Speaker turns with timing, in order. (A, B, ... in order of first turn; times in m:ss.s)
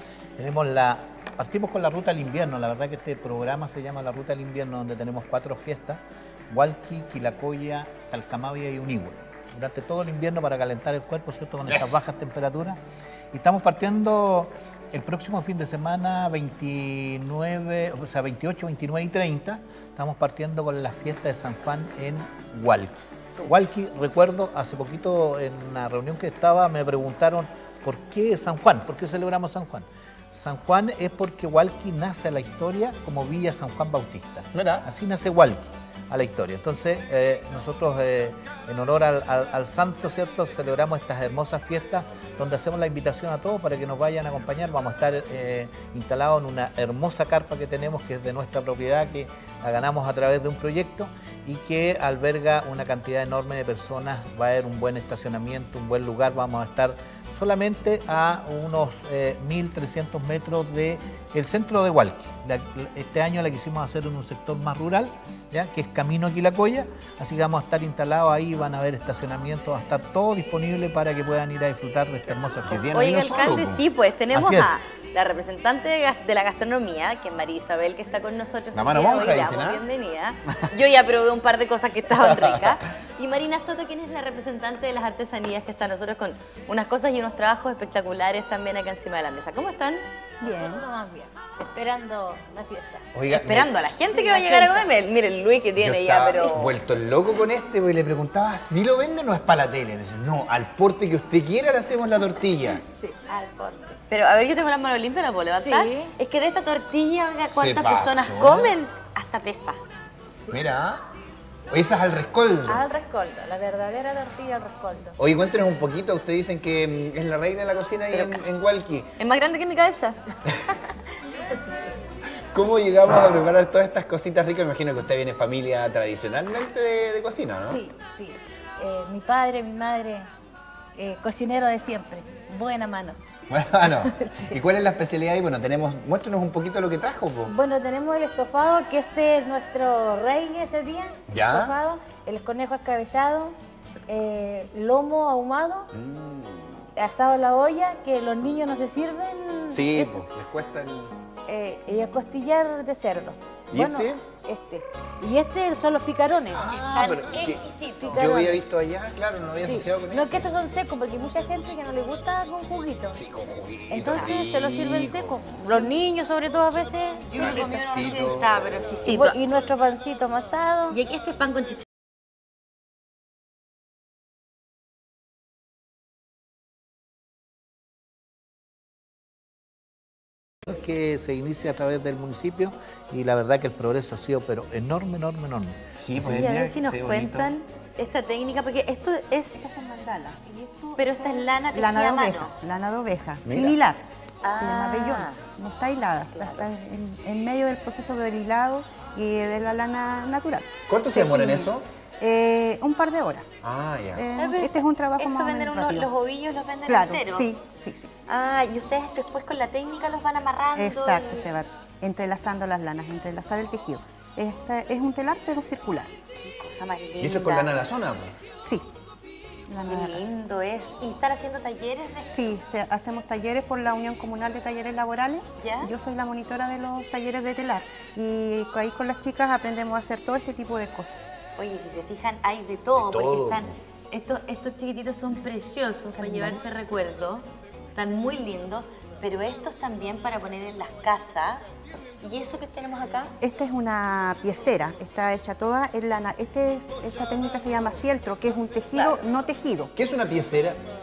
0:00.4-0:06.0 A
0:06.5-0:12.8 A
0:11.7-0:12.0 B
0:13.3-1:12.9 A
0:34.5-0:34.9 B
1:12.6-1:13.8 B
1:12.9-1:30.0 C
1:14.3-1:14.7 A
1:18.7-1:19.8 B
1:22.2-1:22.8 B
1:30.4-1:33.0 D
1:30.4-1:30.8 E
1:33.2-1:33.7 B
1:33.3-1:36.8 C
1:34.0-1:34.9 D
1:35.8-1:42.8 B
1:42.8-1:44.0 D
1:44.1-1:49.8 C
1:45.6-1:46.1 D
1:47.5-1:48.7 B
1:50.5-1:51.0 B
1:51.7-1:52.8 B
1:52.7-1:55.2 D
1:55.2-1:59.1 B
1:58.1-1:58.5 C
1:59.2-2:00.2 C
2:02.5-2:07.8 B
2:07.6-2:10.3 D
2:11.0-2:13.2 D
2:13.5-2:17.5 B
2:14.0-2:14.6 D
2:17.5-2:23.6 D
2:21.3-2:21.7 B
2:24.1-2:25.9 D
2:25.9-2:26.9 B
2:27.0-2:30.2 D
2:29.7-2:31.1 B
2:31.5-2:36.7 D
2:33.7-2:34.2 B
2:36.5-2:40.5 B
2:36.7-2:38.3 C
2:38.0-2:38.7 D
2:39.6-2:43.2 D
2:43.2-2:45.5 B
2:43.9-2:47.8 D
2:47.3-2:49.4 C
2:47.4-2:48.8 B
2:49.0-2:51.0 D
2:50.9-2:51.8 C
3:00.6-3:06.5 A
3:06.0-3:07.5 B
3:06.4-3:09.6 C
3:09.5-3:14.0 E
3:11.0-3:12.5 C
3:13.4-3:13.8 B
3:14.4-3:15.4 C
3:14.6-3:23.5 E
3:16.3-3:16.6 C
3:20.9-3:21.9 B
3:23.6-3:24.3 B
3:24.2-3:26.1 E
3:24.4-3:27.5 C
3:26.9-3:28.1 E
3:28.3-3:31.5 C
3:30.8-3:36.1 E
3:36.4-3:37.7 C
3:37.2-3:38.4 B
3:39.7-3:40.2 E
3:39.8-3:42.6 C
3:42.3-3:51.2 E
3:45.6-3:45.9 C
3:51.6-4:01.6 C
3:53.0-3:53.7 B
3:56.2-3:56.6 E
4:02.2-4:03.4 C
4:03.4-4:09.9 E
4:10.0-4:10.8 B